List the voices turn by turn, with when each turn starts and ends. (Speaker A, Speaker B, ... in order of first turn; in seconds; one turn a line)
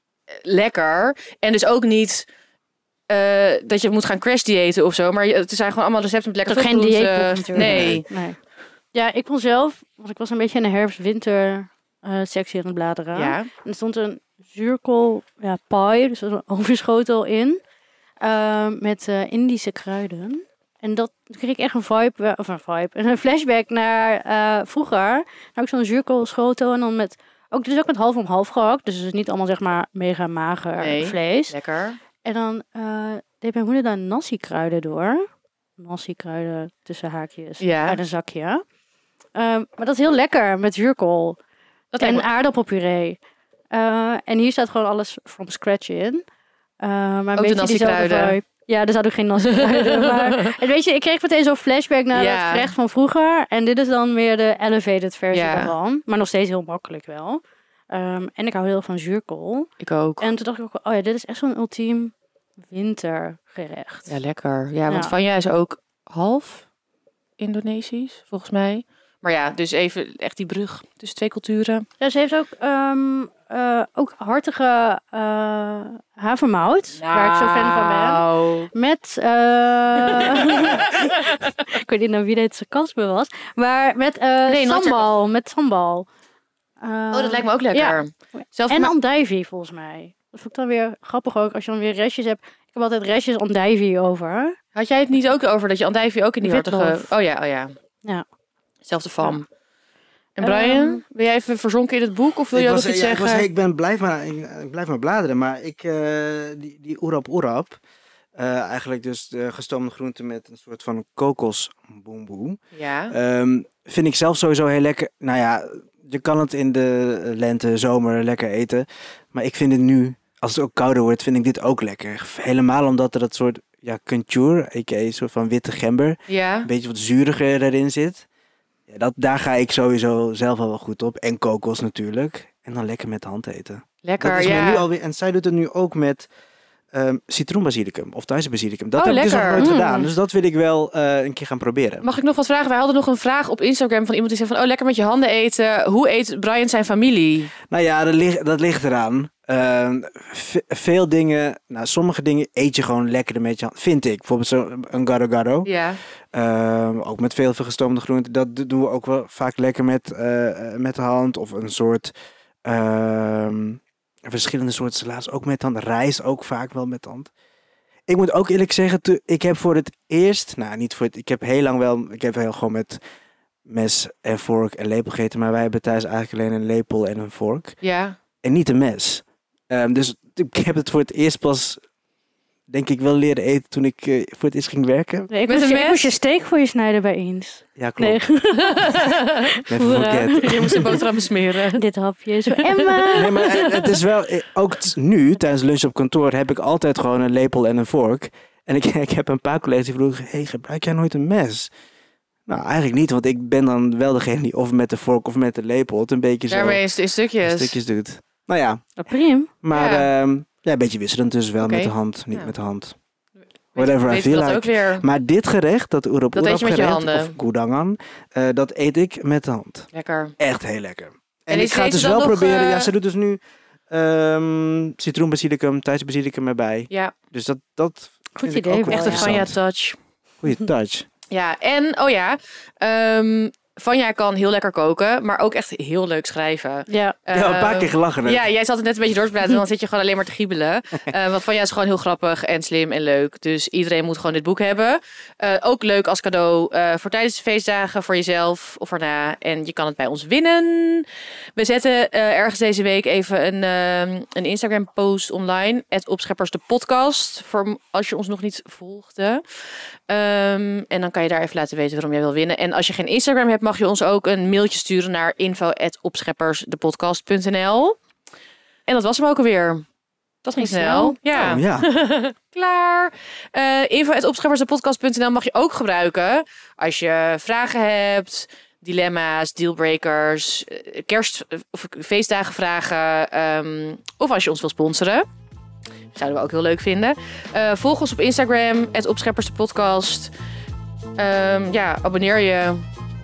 Speaker A: 0.4-2.2
Speaker A: 3.1-8.0
Speaker B: 6.5-8.4
Speaker C: 7.5-8.0
Speaker B: 8.9-17.6
Speaker A: 13.1-13.5
Speaker B: 18.2-31.5
Speaker A: 30.8-32.0
Speaker B: 32.2-35.2
Speaker B: 35.8-38.6
Speaker A: 37.6-38.0
Speaker B: 39.3-41.4
Speaker A: 41.9-42.3
Speaker B: 42.0-43.2
Speaker B: 43.7-46.2
Speaker B: 46.8-59.7
Speaker A: 47.4-48.4
Speaker A: 49.5-50.6
Speaker A: 52.1-52.7
Speaker A: 55.3-55.7
Speaker A: 59.8-60.3
Speaker B: 60.2-62.1
Speaker B: 62.7-64.1
Speaker A: 64.1-66.6
Speaker B: 64.9-65.1
Speaker A: 67.4-71.8
Speaker B: 72.0-86.1
Speaker A: 77.0-78.7
Speaker A: 80.1-81.2
Speaker A: 84.5-85.1
Speaker B: 86.8-88.0
Speaker A: 87.1-88.9
Speaker B: 88.7-94.6
Speaker A: 94.8-97.7
Speaker B: 96.4-97.1
Speaker A: 98.8-99.4
Speaker A: 100.4-103.5
Speaker B: 100.4-101.0
Speaker C: 102.5-107.8
Speaker C: 108.3-112.6
Speaker A: 112.7-113.1
Speaker C: 113.1-128.2
Speaker A: 126.3-126.7
Speaker C: 128.9-136.3
Speaker A: 134.0-134.8
Speaker C: 136.9-142.0
Speaker A: 138.9-139.7
Speaker B: 139.6-140.1
Speaker A: 142.0-147.5
Speaker C: 147.7-155.7
Speaker A: 155.6-156.0
Speaker C: 156.3-162.1
Speaker C: 162.7-167.3
Speaker C: 168.1-173.0
Speaker C: 173.7-177.8
Speaker A: 177.8-178.2
Speaker C: 178.4-181.8
Speaker C: 182.7-185.3
Speaker B: 185.3-191.0
Speaker A: 185.5-186.1
Speaker C: 187.8-188.2
Speaker A: 188.7-189.5
Speaker C: 189.7-191.0
Speaker A: 190.4-191.8
Speaker B: 191.7-193.4
Speaker A: 192.4-193.9
Speaker C: 193.1-201.7
Speaker C: 202.5-206.8
Speaker A: 206.5-207.7
Speaker C: 207.4-208.8
Speaker B: 209.0-209.5
Speaker C: 209.6-212.9
Speaker A: 209.7-210.1
Speaker A: 211.6-212.5
Speaker A: 213.7-215.0
Speaker C: 213.8-229.6
Speaker A: 216.3-217.3
Speaker A: 219.9-220.3
Speaker A: 221.5-222.9
Speaker A: 226.9-227.1
Speaker B: 228.4-229.3
Speaker A: 228.9-230.0
Speaker C: 230.4-231.1
Speaker A: 231.3-259.4
Speaker B: 236.9-237.2
Speaker C: 237.3-238.4
Speaker A: 260.1-268.0
Speaker A: 268.9-269.8
Speaker A: 270.4-285.2
Speaker B: 270.6-271.2
Speaker C: 271.3-271.9
Speaker A: 286.1-290.3
Speaker A: 291.2-292.8